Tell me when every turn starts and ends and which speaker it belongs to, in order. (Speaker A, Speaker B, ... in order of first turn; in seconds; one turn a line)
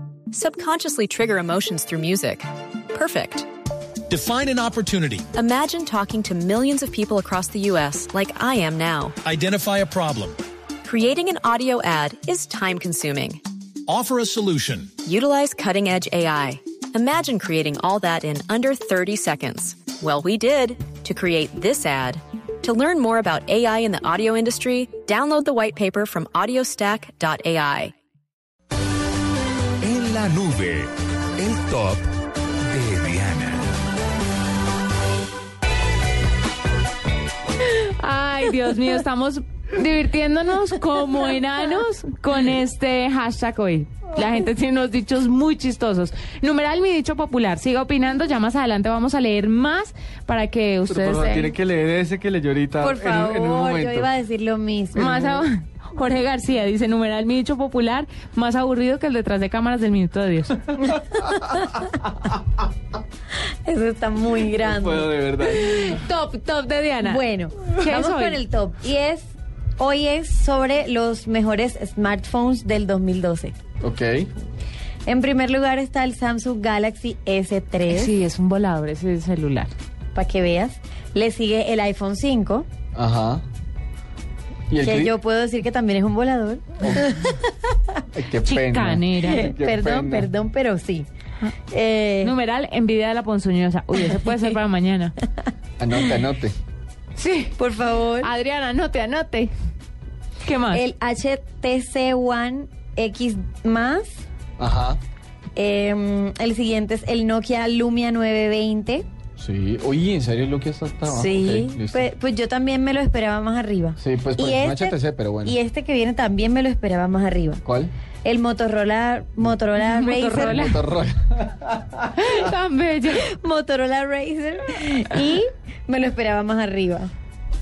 Speaker A: 0.3-3.5
Speaker B: 4.1-5.3
Speaker A: 5.3-9.2
Speaker B: 9.2-10.4
Speaker A: 10.8-13.4
Speaker B: 13.9-15.0
Speaker A: 15.0-27.9
Speaker C: 29.8-32.1
Speaker C: 32.7-33.7
Speaker D: 37.6-51.5
Speaker E: 50.9-54.1
Speaker F: 52.8-55.5
Speaker D: 54.9-60.7
Speaker F: 60.8-61.9
Speaker F: 63.6-65.1
Speaker E: 64.6-65.9
Speaker D: 65.4-68.4
Speaker F: 67.0-73.6
Speaker E: 73.8-74.3
Speaker F: 75.1-78.1
Speaker D: 77.9-79.7
Speaker F: 80.1-82.7
Speaker E: 82.9-83.4
Speaker E: 84.7-85.1
Speaker F: 84.8-87.5
Speaker E: 86.8-87.1
Speaker E: 88.1-90.3
Speaker D: 88.5-89.5
Speaker F: 89.2-91.1
Speaker F: 91.7-92.3
Speaker D: 92.2-95.1
Speaker E: 95.8-96.6
Speaker D: 97.2-97.6
Speaker F: 97.6-98.3
Speaker D: 98.2-99.5
Speaker D: 100.4-100.9
Speaker F: 100.7-104.2
Speaker E: 104.6-105.0
Speaker F: 105.6-109.1
Speaker E: 109.4-112.1
Speaker F: 111.0-117.6
Speaker E: 114.0-115.6
Speaker E: 117.6-117.9
Speaker F: 118.2-120.6
Speaker D: 119.8-120.8
Speaker E: 120.4-122.0
Speaker D: 122.1-123.2
Speaker F: 123.2-127.1